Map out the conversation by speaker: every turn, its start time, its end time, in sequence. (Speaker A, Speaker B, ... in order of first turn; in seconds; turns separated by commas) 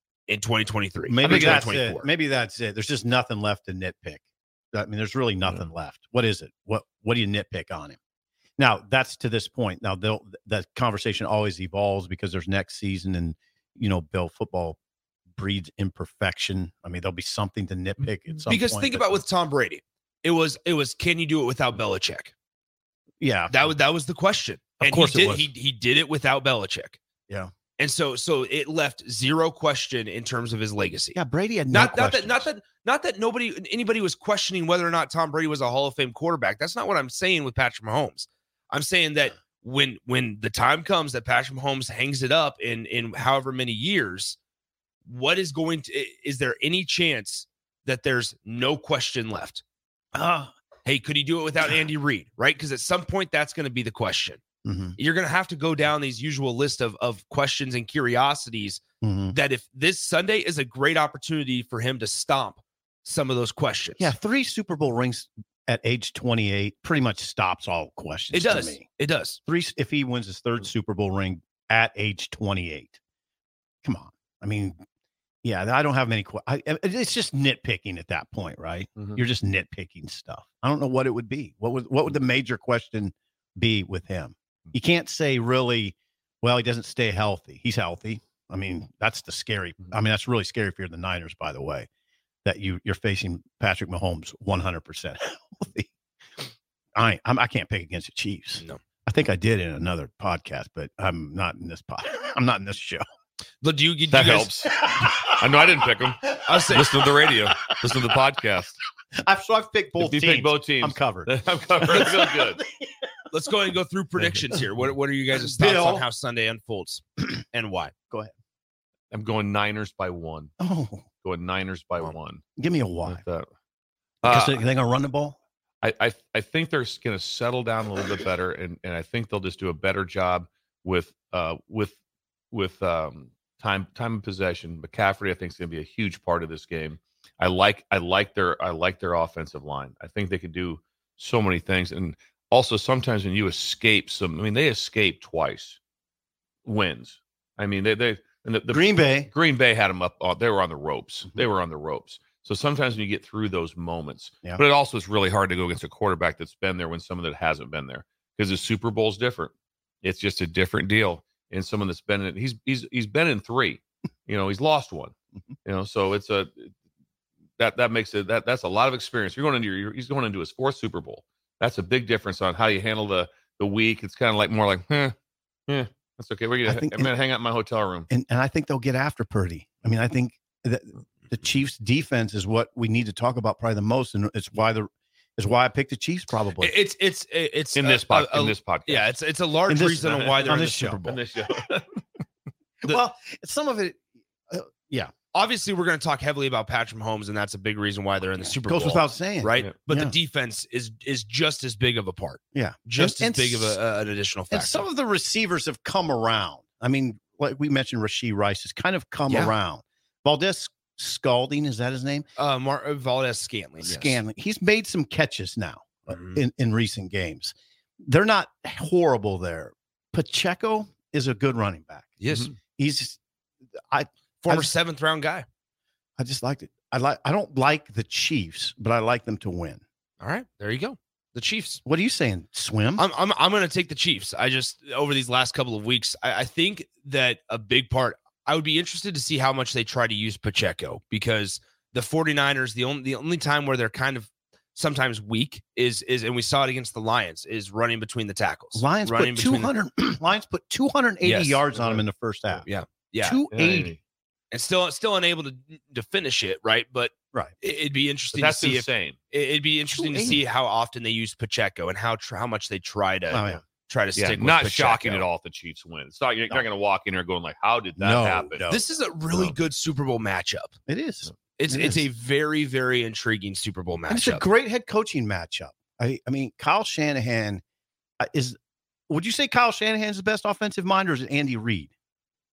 Speaker A: 0.3-2.1, Speaker B: 1.1-8.0, Speaker C: 1.2-1.7, Speaker B: 8.6-14.8, Speaker B: 15.3-19.2, Speaker A: 18.5-22.3, Speaker B: 23.2-23.7, Speaker A: 23.5-27.0, Speaker B: 24.8-25.5, Speaker A: 27.8-31.2, Speaker B: 31.1-32.5, Speaker A: 31.7-44.4, Speaker A: 45.0-49.6, Speaker B: 50.1-50.5, Speaker A: 50.9-54.4, Speaker B: 54.6-55.0, Speaker A: 55.0-64.1, Speaker B: 59.0-59.4, Speaker B: 64.0-68.8, Speaker A: 68.3-69.4, Speaker B: 69.5-73.0, Speaker B: 73.8-74.8, Speaker B: 75.4-91.9, Speaker B: 92.5-95.9, Speaker B: 97.0-103.0, Speaker A: 103.6-104.5, Speaker C: 104.1-108.8, Speaker A: 106.5-107.0, Speaker B: 109.2-113.0, Speaker C: 110.0-112.6, Speaker A: 113.3-117.9, Speaker B: 115.3-116.1, Speaker C: 119.1-120.5, Speaker B: 120.6-121.1, Speaker C: 121.2-122.4, Speaker B: 122.6-123.2, Speaker C: 123.1-123.5, Speaker C: 124.2-124.6, Speaker B: 124.2-125.4, Speaker C: 125.8-131.9, Speaker C: 132.5-145.8, Speaker C: 146.7-159.5, Speaker B: 148.7-149.3, Speaker C: 160.0-165.1, Speaker C: 165.7-166.7, Speaker C: 167.6-175.2, Speaker C: 175.7-178.1, Speaker B: 176.7-177.1, Speaker B: 178.1-186.7, Speaker A: 186.6-191.2, Speaker C: 187.8-189.1, Speaker B: 189.7-191.0, Speaker C: 190.1-192.0, Speaker B: 192.8-195.1, Speaker A: 195.3-204.9, Speaker B: 198.7-200.2, Speaker B: 202.5-203.8, Speaker B: 204.5-212.3, Speaker A: 212.4-214.2, Speaker B: 213.8-223.2, Speaker A: 216.1-216.4, Speaker A: 222.2-222.5, Speaker B: 223.9-224.7, Speaker A: 224.4-225.4, Speaker B: 226.2-229.8, Speaker A: 230.2-231.8, Speaker B: 231.8-233.1, Speaker A: 233.0-249.7, Speaker B: 248.7-252.7, Speaker A: 251.2-251.7, Speaker A: 252.7-253.4, Speaker B: 253.2-254.0, Speaker C: 253.5-254.0, Speaker A: 254.5-265.2, Speaker C: 258.3-259.2, Speaker B: 259.9-260.4, Speaker B: 263.3-263.6, Speaker C: 264.2-268.7, Speaker B: 268.0-268.8, Speaker A: 268.7-270.7, Speaker B: 270.9-272.1, Speaker A: 271.6-274.5, Speaker B: 274.1-277.6, Speaker B: 278.2-278.6, Speaker B: 279.1-281.9